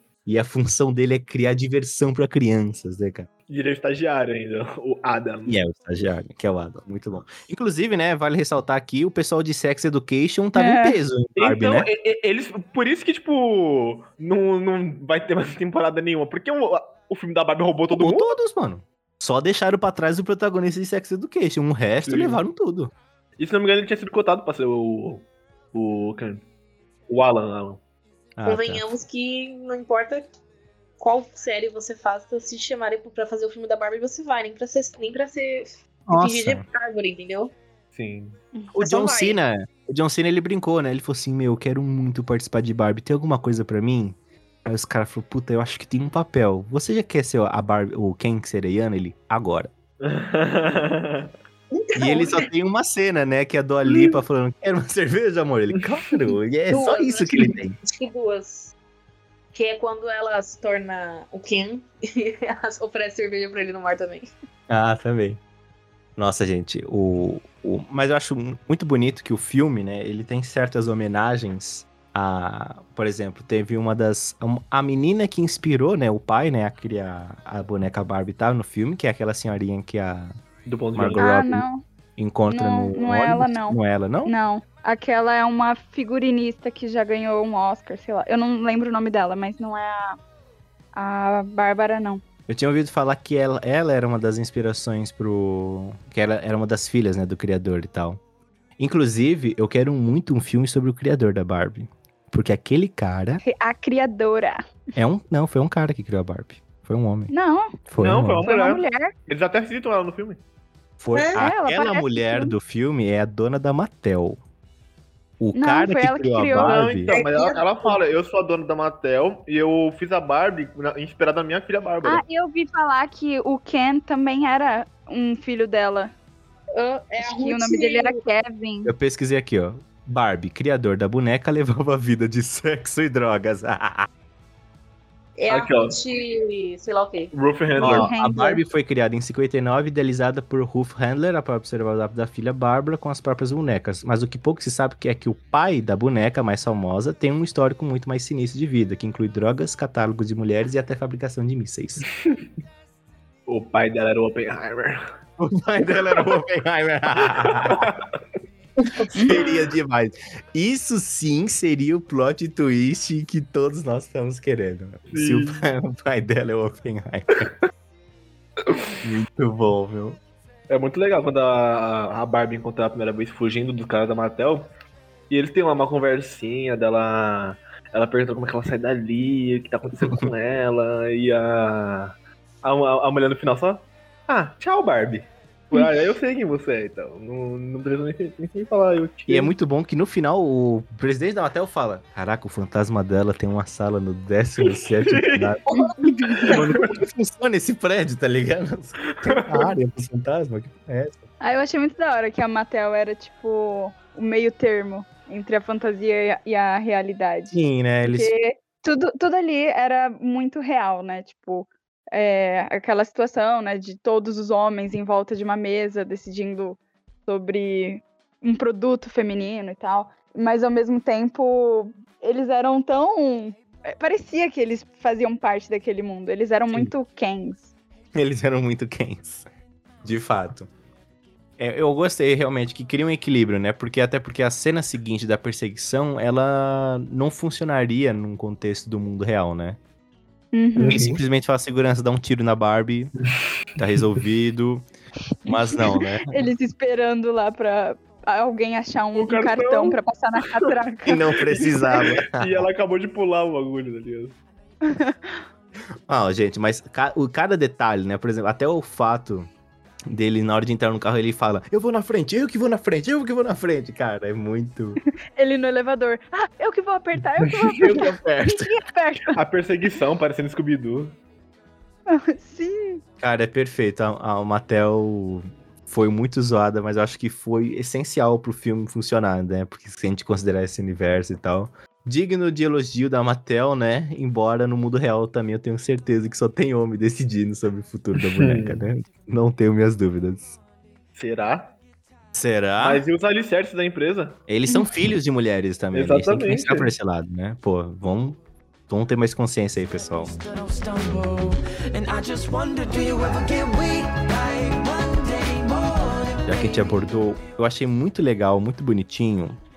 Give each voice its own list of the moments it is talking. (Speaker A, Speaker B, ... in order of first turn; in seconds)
Speaker A: 0.2-3.3, 5.5-11.9, 17.9-22.9, 28.4-28.8, 36.1-36.6, 38.7-49.7, 51.9-57.8, 64.7-65.4, 66.2-80.3, 80.9-81.7, 82.2-84.3, 92.5-98.2, 98.8-103.4, 105.0-107.3, 107.9-108.5, 111.0-114.4, 115.4-117.2, 128.8-134.1, 137.8-152.0, 155.4-157.9, 159.2-167.5, 169.0-170.2, 189.3-195.7, 196.4-201.2, 207.5-208.3, 228.1-229.4, 230.0-230.7, 231.6-239.8, 240.9-243.1, 243.8-244.9, 245.4-246.5, 251.1-252.7, 256.1-259.5, 260.1-265.0, 267.8-268.7, 273.2-290.6, 292.3-293.0, 294.5-300.3, 306.4-309.6
Speaker B: 3.5-5.6, 11.4-18.4, 22.0-22.4, 23.4-26.4, 27.1-27.8, 37.9-38.4, 50.0-51.3, 80.7-81.4, 108.0-110.4, 116.5-122.2, 135.5-136.0, 137.3-138.1, 153.5-155.0, 156.1-156.4, 157.3-158.0, 165.1-165.6, 168.7-168.9, 170.7-174.7, 175.3-189.5, 194.6-195.5, 196.5-197.0, 199.2-199.7, 240.8-241.2, 249.1-250.0, 251.6-254.4, 267.4-268.0, 269.4-271.1, 288.2-288.8, 291.1-291.7, 292.8-294.4, 295.9-296.9
Speaker C: 10.6-11.0, 81.2-81.8, 82.5-90.2, 90.9-92.2, 103.4-104.6, 107.3-107.8, 108.5-109.1, 111.4-112.5, 115.5-116.8, 122.0-126.1, 127.3-128.9, 137.8-138.6, 195.7-196.5, 201.4-227.7, 240.5-241.0, 246.3-251.2, 254.9-255.4, 265.4-269.4, 272.1-273.0
Speaker D: 28.4-30.3, 31.0-37.5, 38.7-39.4, 51.7-52.5, 56.7-58.7, 59.5-64.3, 111.1-111.5, 117.1-118.0, 126.8-128.2, 135.4-137.3, 195.7-195.9
Speaker E: 300.1-306.9